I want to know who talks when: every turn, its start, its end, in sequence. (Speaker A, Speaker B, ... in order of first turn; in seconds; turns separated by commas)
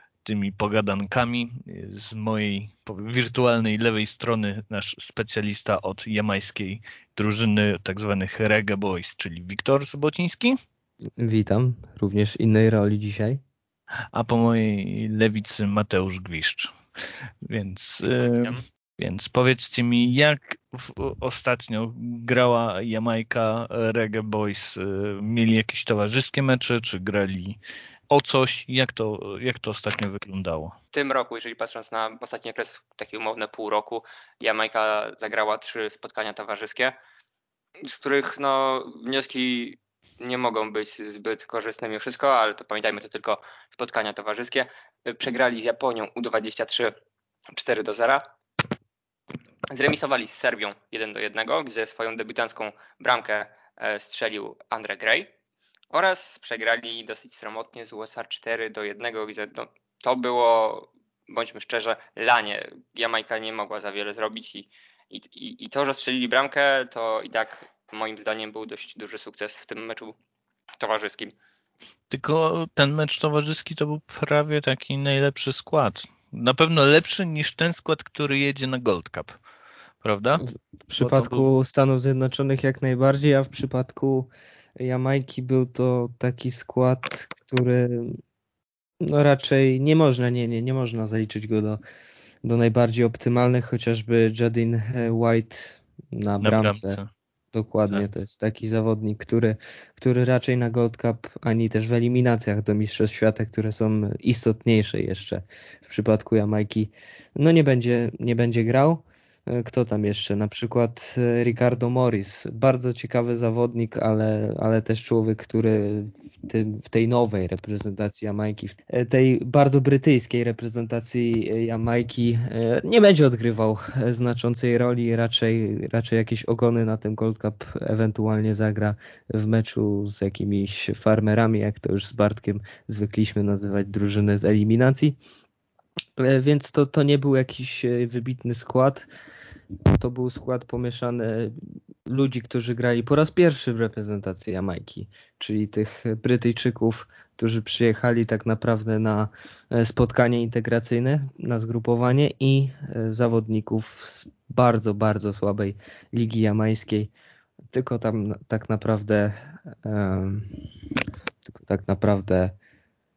Speaker A: 0.2-10.6, Speaker B: 11.2-13.4, Speaker A: 14.1-16.7, Speaker A: 17.4-27.6, Speaker C: 18.3-18.6, Speaker A: 28.1-30.7, Speaker C: 30.9-37.0, Speaker C: 37.8-46.9, Speaker C: 47.5-48.2, Speaker C: 49.7-55.3, Speaker C: 55.9-70.1, Speaker C: 70.8-71.3, Speaker A: 72.1-79.3, Speaker A: 80.0-80.4, Speaker B: 80.4-88.2, Speaker A: 81.0-81.5, Speaker B: 89.0-91.8, Speaker B: 92.4-97.0, Speaker A: 96.4-97.1, Speaker B: 97.5-135.2, Speaker B: 136.2-139.1, Speaker B: 139.9-157.1, Speaker B: 157.7-160.7, Speaker B: 161.4-162.5